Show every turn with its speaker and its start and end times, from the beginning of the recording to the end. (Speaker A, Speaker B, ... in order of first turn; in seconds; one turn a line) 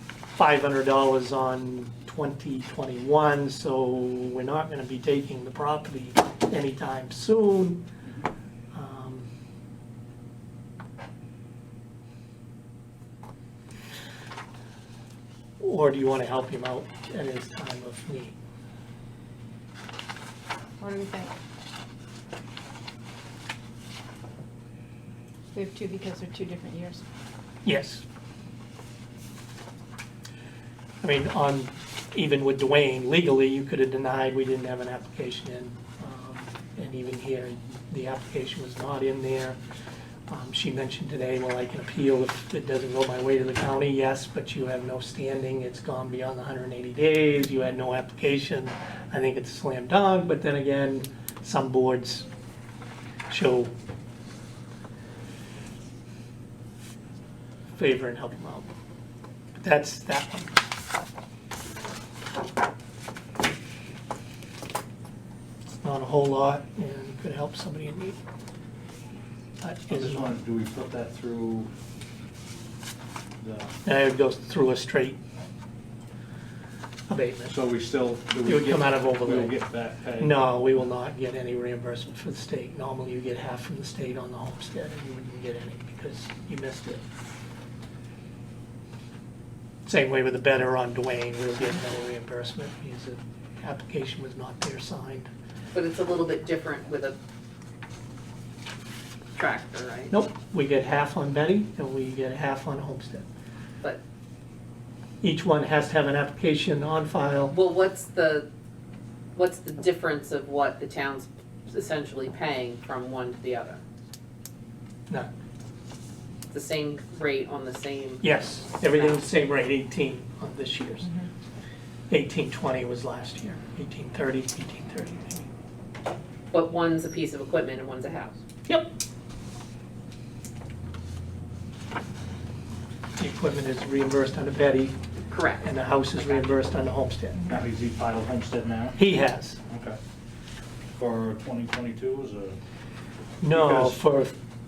Speaker A: 0.3-7.8
Speaker A: 8.7-9.3
Speaker A: 15.6-18.4
Speaker B: 20.8-21.4
Speaker B: 25.5-27.0
Speaker A: 27.6-28.0
Speaker A: 31.0-39.6
Speaker A: 40.3-52.3
Speaker A: 53.3-53.7
Speaker A: 57.8-58.7
Speaker A: 59.6-60.6
Speaker A: 65.8-68.2
Speaker A: 69.6-70.4
Speaker C: 69.9-71.7
Speaker C: 73.4-73.8
Speaker A: 73.8-75.2
Speaker A: 77.1-77.5
Speaker C: 77.5-80.5
Speaker A: 78.4-79.6
Speaker A: 80.2-87.0
Speaker A: 89.9-95.3
Speaker D: 95.7-97.2
Speaker D: 99.3-100.1
Speaker A: 100.1-103.3
Speaker A: 105.2-107.5
Speaker D: 107.5-108.5
Speaker D: 109.3-113.8
Speaker D: 116.5-119.2
Speaker A: 118.2-121.1
Speaker A: 122.1-125.5
Speaker D: 126.5-128.4
Speaker A: 128.7-128.9
Speaker A: 133.2-135.0
Speaker D: 135.3-136.6
Speaker A: 135.6-137.5
Speaker C: 137.5-139.0
Speaker A: 139.0-139.6
Speaker C: 139.7-140.0
Speaker C: 141.0-142.6
Speaker A: 143.4-144.4
Speaker C: 143.5-144.0